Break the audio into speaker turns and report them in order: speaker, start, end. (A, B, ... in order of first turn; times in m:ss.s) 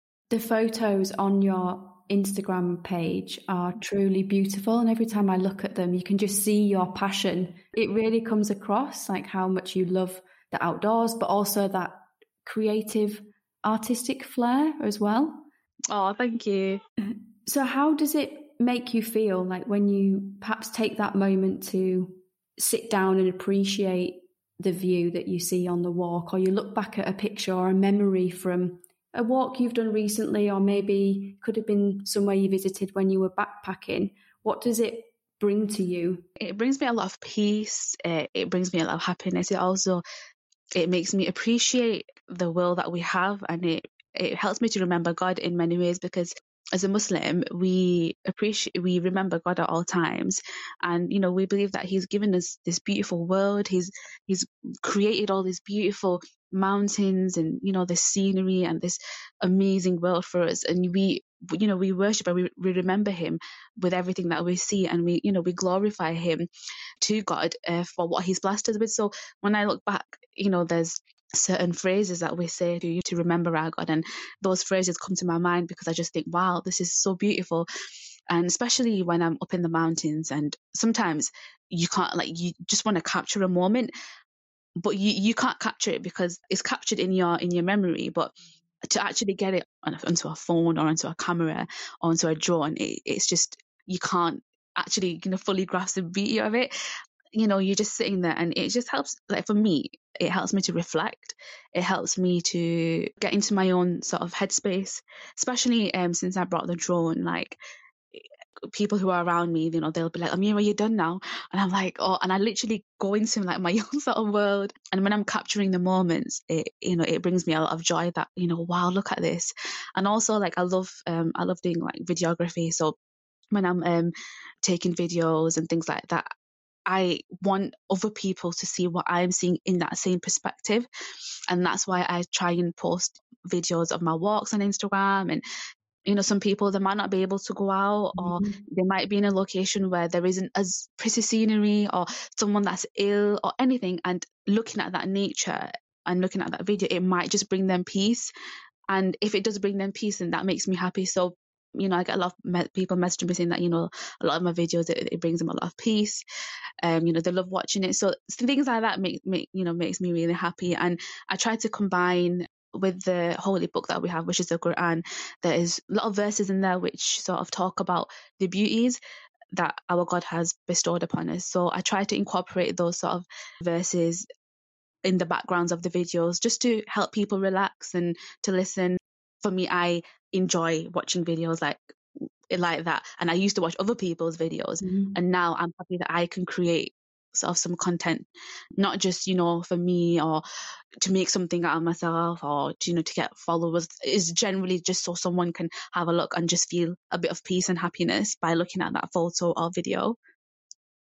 0:00.3-0:15.5 A
0:15.9-0:16.8 B
0:17.5-0:36.2 A
0:36.4-0:40.0 B
0:40.8-1:06.5 B
1:07.0-1:17.7 B
1:18.3-1:23.9 B
1:24.8-1:28.3 B
1:28.9-1:36.7 B
1:37.3-1:47.6 B
1:48.1-2:03.0 B
2:03.5-2:06.3 B
2:06.9-2:10.9 B
2:11.5-2:15.4 B
2:16.1-2:28.3 B
2:18.2-2:18.6 A
2:28.9-2:36.2 B
2:36.8-2:49.0 B
2:49.5-2:54.2 B
2:55.0-3:01.9 B
3:02.5-3:08.3 B
3:04.8-3:05.2 A
3:08.8-3:10.4 B
3:11.0-3:20.2 B